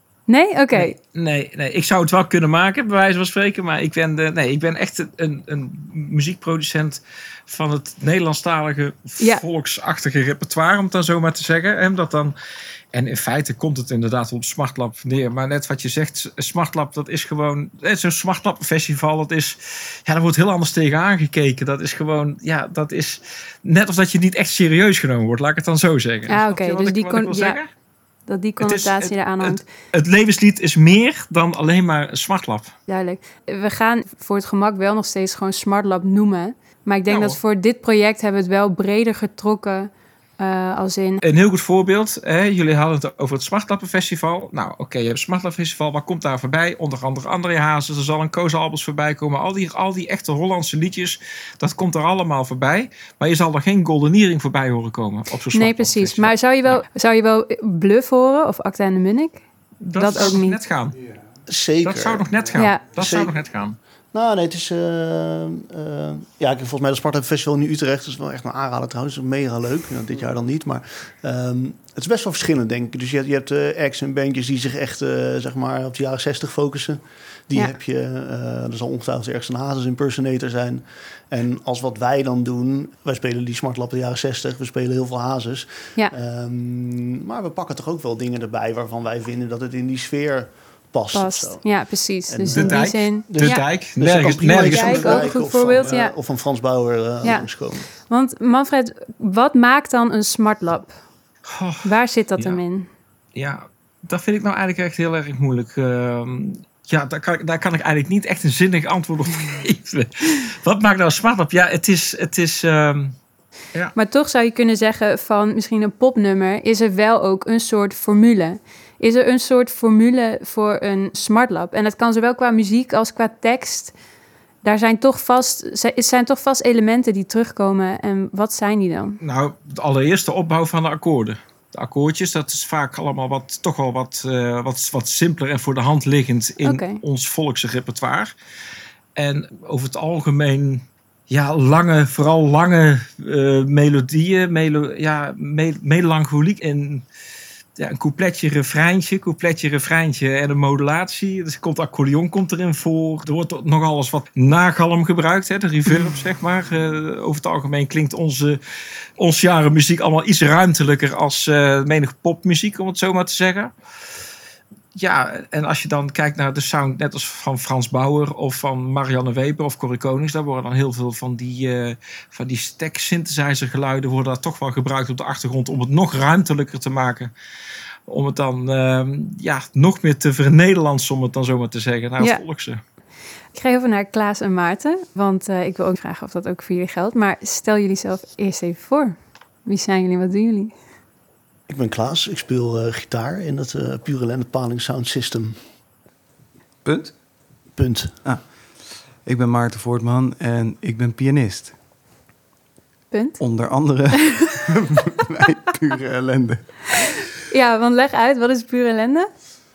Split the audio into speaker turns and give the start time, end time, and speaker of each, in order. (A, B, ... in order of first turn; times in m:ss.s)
0:00.3-0:01.0 A
0:00.7-0:12.3 B
0:12.9-0:27.7 B
0:26.3-0:27.6 A
0:28.3-0:29.7 A
0:28.6-0:32.7 B
0:32.9-0:41.2 A
0:37.1-0:37.4 B
0:41.2-0:56.8 B
0:55.5-0:59.4 A
0:59.8-1:01.0 B
1:00.0-1:00.6 A
1:01.5-1:02.3 C
1:01.8-1:03.8 B
1:02.6-1:02.9 A
1:02.9-1:03.4 C
1:04.1-1:37.9 C
1:31.1-1:33.7 A
1:32.5-1:35.9 B
1:34.7-1:36.2 A
1:37.2-1:41.0 A
1:41.4-1:42.6 B
1:41.8-1:42.9 A
1:43.3-1:53.1 B
1:54.0-2:03.9 A
2:04.6-2:09.2 A
2:09.2-2:18.3 B
2:16.6-2:17.0 A
2:19.2-2:27.0 B
2:27.8-2:38.6 B
2:39.2-2:43.7 B
2:44.9-2:57.3 B
2:58.1-3:02.8 B
3:03.5-3:10.7 A
3:11.7-3:15.7 C
3:16.8-3:17.2 D
3:17.7-3:18.2 C
3:18.2-3:21.7 D
3:23.1-3:24.1 A
3:23.4-3:27.2 D
3:27.4-3:29.3 A